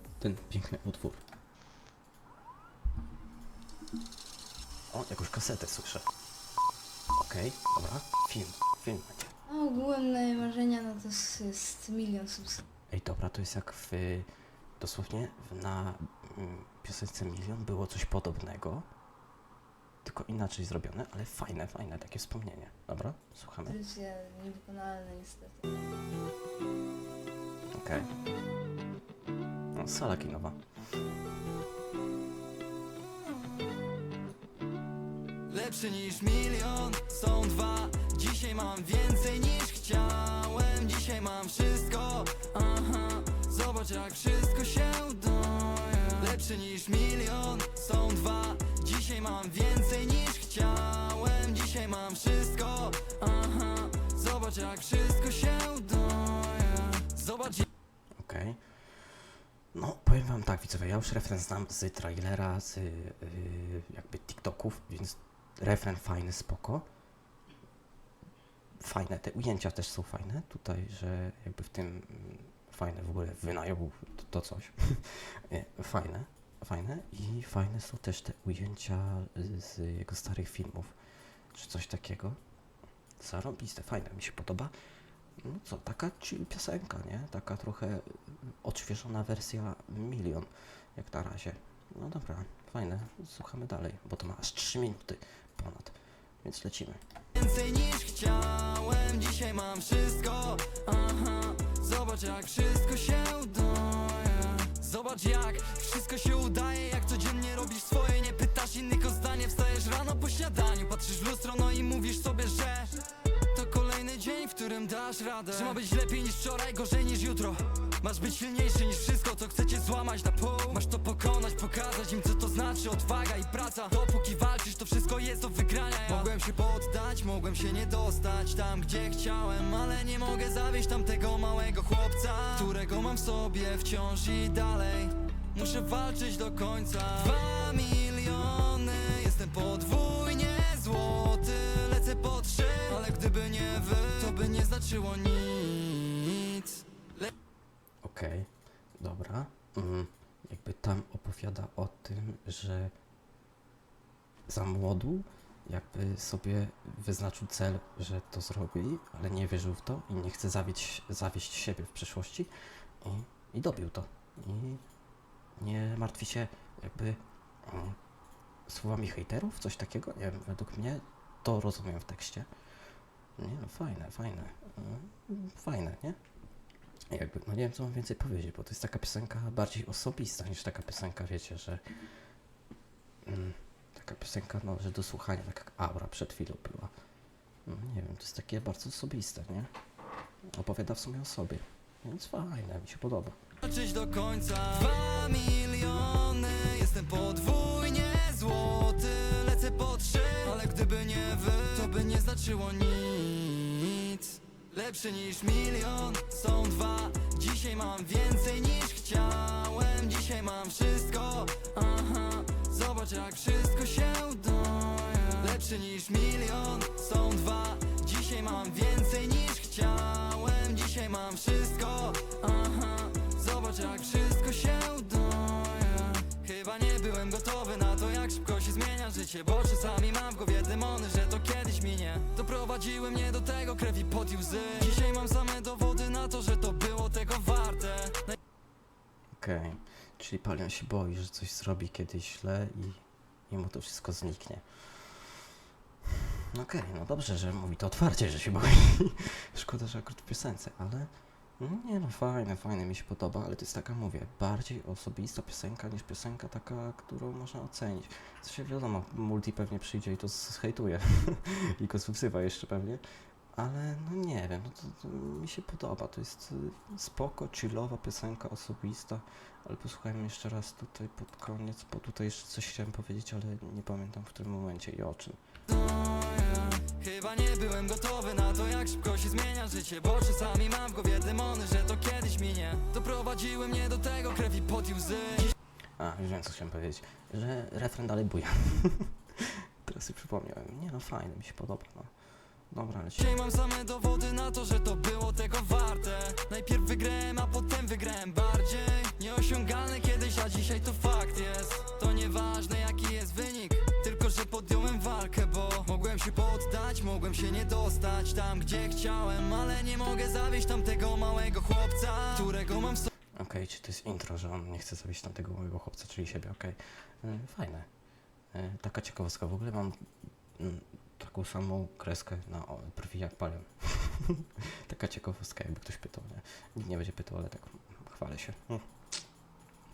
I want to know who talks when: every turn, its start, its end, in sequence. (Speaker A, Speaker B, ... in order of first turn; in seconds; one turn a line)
Speaker A: 0.2-1.2
Speaker A: 4.9-6.1
Speaker A: 7.2-9.3
Speaker B: 9.5-12.7
Speaker A: 12.9-14.3
Speaker A: 14.8-18.9
Speaker A: 20.0-23.8
Speaker B: 23.7-25.8
Speaker A: 27.7-28.1
Speaker A: 29.7-30.6
Speaker C: 35.5-57.7
Speaker A: 58.2-59.0
Speaker A: 59.7-66.9
Speaker A: 68.8-80.9
Speaker A: 81.5-82.4
Speaker A: 83.2-84.7
Speaker A: 85.4-97.0
Speaker C: 97.4-147.3
Speaker A: 148.0-152.9
Speaker A: 154.5-162.5
Speaker A: 163.0-164.8
Speaker A: 165.6-168.0
Speaker A: 168.7-172.5
Speaker A: 173.4-176.2
Speaker A: 177.1-181.8
Speaker A: 183.2-186.9
Speaker A: 187.7-189.7
Speaker A: 190.6-193.4
Speaker C: 193.6-238.4
Speaker A: 239.4-245.3
Speaker A: 246.4-263.0
Speaker A: 263.6-275.4
Speaker C: 275.7-285.5
Speaker A: 286.0-292.1
Speaker A: 292.7-293.4
Speaker C: 293.2-313.1
Speaker A: 313.3-317.9
Speaker A: 318.5-328.9